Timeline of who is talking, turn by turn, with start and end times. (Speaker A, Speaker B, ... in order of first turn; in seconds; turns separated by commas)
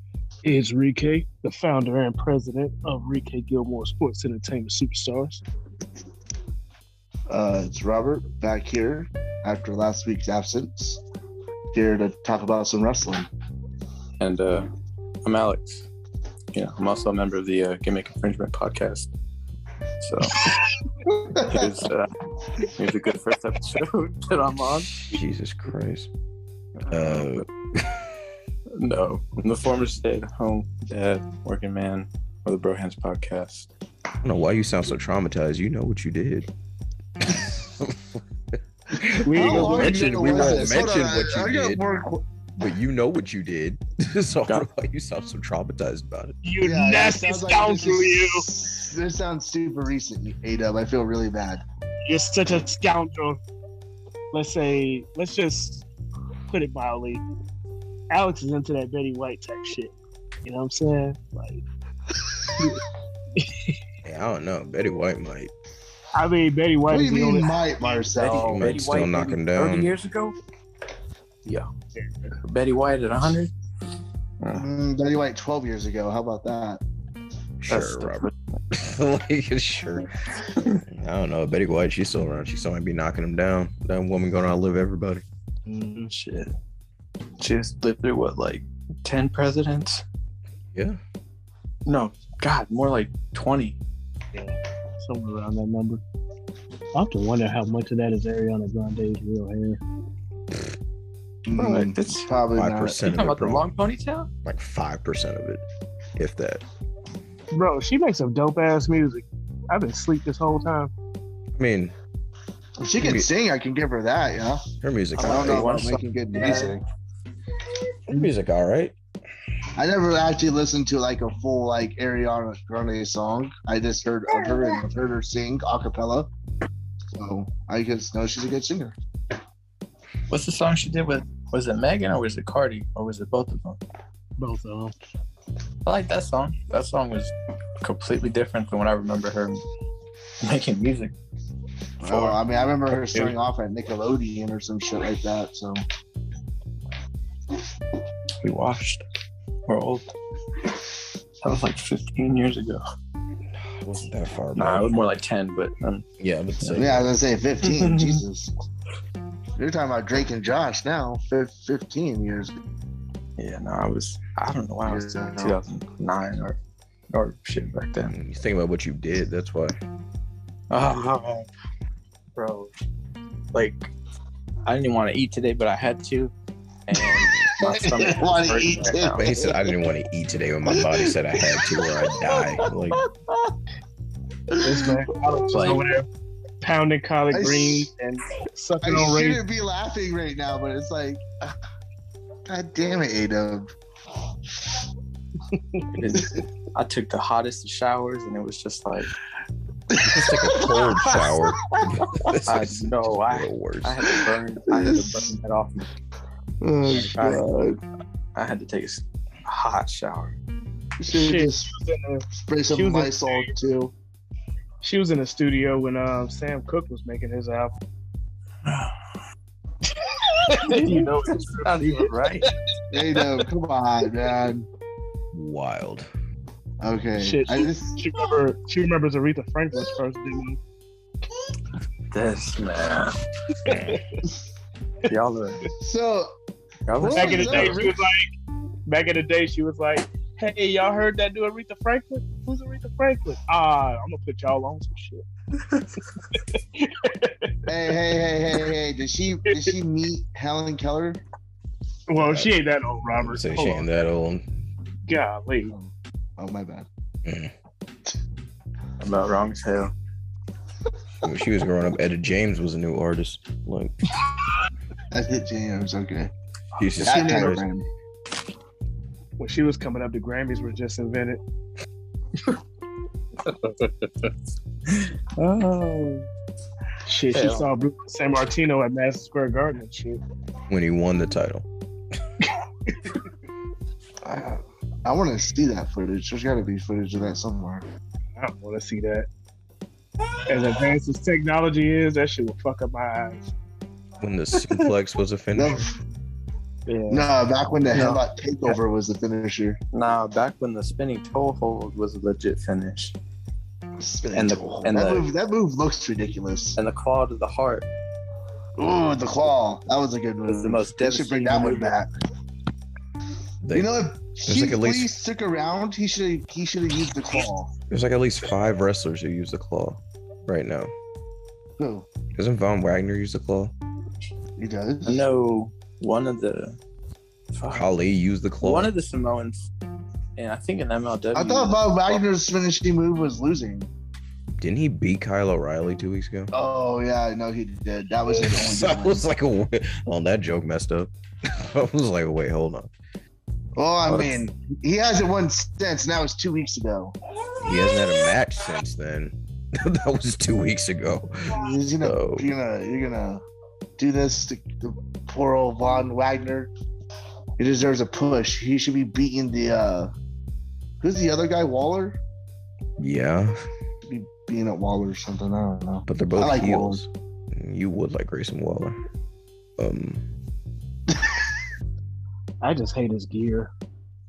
Speaker A: 0.4-5.4, Speaker B: 7.3-11.0, Speaker B: 11.7-13.3, Speaker C: 14.2-14.7, Speaker C: 15.2-15.9, Speaker C: 16.5-19.1, Speaker C: 20.0-20.5, Speaker B: 21.1-21.6, Speaker C: 21.4-25.1, Speaker D: 25.0-26.1, Speaker C: 26.8-27.5, Speaker D: 26.9-28.0, Speaker C: 28.8-33.7, Speaker D: 34.2-36.5, Speaker D: 37.2-38.2, Speaker D: 39.0-41.8, Speaker B: 39.1-42.2, Speaker A: 39.2-40.4, Speaker C: 39.7-40.7, Speaker D: 42.6-46.4, Speaker A: 46.4-48.5, Speaker B: 46.6-51.6, Speaker A: 52.1-53.4, Speaker A: 54.3-55.8, Speaker A: 56.5-57.2, Speaker A: 58.1-59.9, Speaker A: 60.4-61.6, Speaker A: 62.5-62.8, Speaker A: 63.4-63.8, Speaker D: 64.0-65.5, Speaker A: 66.1-68.1, Speaker B: 66.9-68.6, Speaker C: 68.1-70.3, Speaker D: 68.4-69.9, Speaker A: 72.0-72.3, Speaker C: 72.4-73.5, Speaker C: 74.4-74.7, Speaker B: 74.5-76.8, Speaker D: 77.6-80.1, Speaker C: 77.7-78.4, Speaker D: 80.6-85.2, Speaker A: 85.7-86.1, Speaker C: 86.1-86.5, Speaker C: 87.4-90.0, Speaker C: 91.9-93.8, Speaker A: 94.3-96.0, Speaker A: 96.9-99.8, Speaker B: 101.5-103.2, Speaker C: 101.5-102.3, Speaker D: 102.5-103.7, Speaker C: 103.1-104.3, Speaker D: 104.5-105.6, Speaker D: 106.2-106.6, Speaker A: 107.5-110.9, Speaker D: 111.6-112.0, Speaker B: 112.8-114.6, Speaker D: 113.0-113.3, Speaker D: 114.8-115.7, Speaker C: 115.2-116.8, Speaker B: 115.2-116.8, Speaker D: 118.1-119.0, Speaker B: 119.8-126.3, Speaker B: 127.2-128.9, Speaker C: 130.3-133.8, Speaker A: 134.4-134.9, Speaker C: 135.8-139.6, Speaker C: 140.4-141.1, Speaker B: 142.0-145.8, Speaker C: 142.1-142.4, Speaker C: 148.4-149.0, Speaker C: 149.7-150.1, Speaker C: 151.4-152.8, Speaker D: 153.7-154.9, Speaker C: 154.6-156.1, Speaker D: 156.2-157.1, Speaker B: 156.8-158.5, Speaker C: 157.6-158.2, Speaker B: 159.6-162.6, Speaker C: 163.4-166.6, Speaker B: 164.9-165.6, Speaker C: 167.1-168.2, Speaker D: 168.1-169.8, Speaker C: 170.7-171.5, Speaker C: 172.4-172.7, Speaker C: 173.5-173.9, Speaker C: 174.7-176.3, Speaker C: 176.9-179.3, Speaker D: 177.0-177.4, Speaker B: 177.6-179.7, Speaker D: 179.2-183.0, Speaker B: 180.7-182.7, Speaker B: 184.5-185.8, Speaker A: 184.6-186.1, Speaker C: 185.5-185.8, Speaker A: 186.6-189.4, Speaker B: 187.3-187.9, Speaker B: 188.8-191.5, Speaker B: 192.5-193.7, Speaker C: 196.0-199.1, Speaker B: 199.9-202.3, Speaker D: 200.0-204.0, Speaker C: 202.5-205.8, Speaker B: 204.7-205.3, Speaker B: 206.6-207.8, Speaker C: 206.9-207.5, Speaker C: 208.3-210.3, Speaker B: 211.0-211.8, Speaker A: 211.1-213.5, Speaker B: 212.3-213.9, Speaker A: 214.8-217.7, Speaker C: 218.7-218.9, Speaker C: 220.5-222.5, Speaker A: 220.5-222.1, Speaker B: 222.9-224.7, Speaker D: 225.3-226.1, Speaker B: 226.8-228.0, Speaker A: 227.2-230.6, Speaker C: 232.1-233.1, Speaker A: 233.7-234.2, Speaker D: 233.7-234.0, Speaker C: 235.1-235.6, Speaker B: 235.8-236.3, Speaker C: 236.9-237.9, Speaker B: 237.0-238.0, Speaker A: 237.0-238.3, Speaker A: 238.9-245.2, Speaker A: 246.5-247.7, Speaker B: 247.7-251.2, Speaker A: 252.1-254.0, Speaker D: 252.2-252.5, Speaker D: 253.1-254.4, Speaker A: 255.1-255.8, Speaker B: 255.7-256.9, Speaker D: 257.2-257.5, Speaker C: 259.0-259.9, Speaker D: 261.2-264.0, Speaker B: 265.1-266.3, Speaker D: 266.8-267.6, Speaker B: 267.0-267.9, Speaker A: 269.4-271.4, Speaker C: 273.5-274.3, Speaker C: 274.9-276.3, Speaker A: 277.1-280.2, Speaker C: 277.3-277.7, Speaker D: 280.7-281.7, Speaker A: 282.4-282.9, Speaker B: 284.2-287.9, Speaker A: 288.4-289.3, Speaker A: 290.5-293.5, Speaker D: 294.2-295.8, Speaker B: 295.5-296.0, Speaker A: 296.9-297.2, Speaker B: 297.1-299.8, Speaker C: 297.9-298.7, Speaker C: 299.9-303.1, Speaker B: 304.0-306.8, Speaker C: 304.3-305.3, Speaker C: 306.8-307.9, Speaker B: 308.8-312.1, Speaker C: 310.5-312.0, Speaker D: 313.6-313.9, Speaker B: 313.7-317.7, Speaker D: 314.5-315.1, Speaker D: 317.9-320.9, Speaker B: 321.8-322.1, Speaker D: 322.4-323.7, Speaker B: 324.6-325.3, Speaker C: 325.1-326.8, Speaker C: 327.5-327.9, Speaker D: 327.7-328.9, Speaker C: 328.6-329.7, Speaker C: 330.4-332.2, Speaker B: 331.3-333.9, Speaker D: 334.6-336.5, Speaker B: 336.5-339.2, Speaker D: 338.3-342.9, Speaker B: 343.8-347.1, Speaker C: 344.1-344.4, Speaker D: 347.6-352.5, Speaker B: 351.5-353.4, Speaker B: 354.0-356.7, Speaker B: 357.6-360.1, Speaker B: 361.0-362.2, Speaker D: 363.0-363.6, Speaker B: 364.1-367.0, Speaker D: 366.1-369.0, Speaker D: 369.8-370.2, Speaker A: 372.6-373.7